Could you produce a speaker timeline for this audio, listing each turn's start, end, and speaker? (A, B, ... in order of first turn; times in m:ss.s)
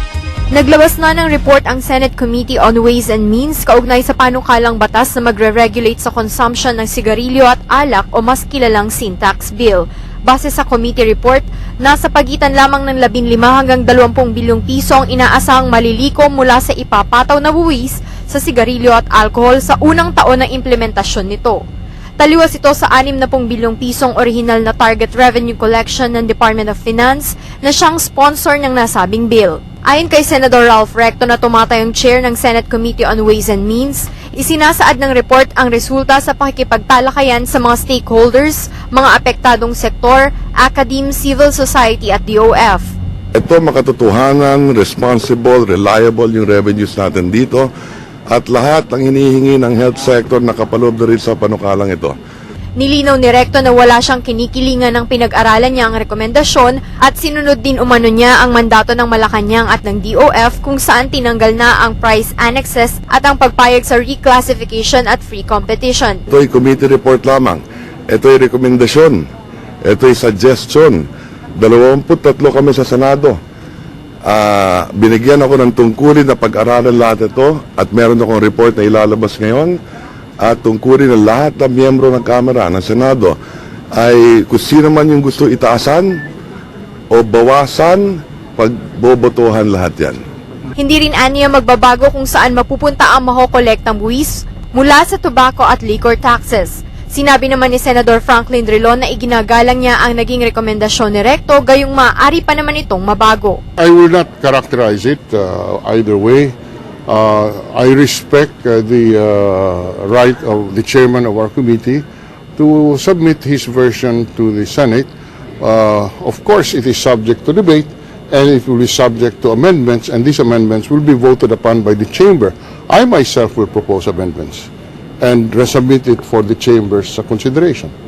0:00.5-0:21.6 A
0:22.2-0:42.9 A
0:43.4-0:47.7 B
0:48.3-0:52.2 B
0:52.8-1:06.2 A
1:06.3-1:09.2 B
1:09.9-1:11.0 B
1:11.6-1:13.4 B
1:14.3-1:19.8 B
1:20.4-1:23.4 B
1:24.0-1:26.2 B
1:27.1-1:30.2 B
1:30.8-1:43.6 A
1:43.8-1:46.6 C
1:47.1-1:52.0 C
1:52.6-1:55.1 C
1:55.6-2:04.7 C
2:05.2-2:07.9 C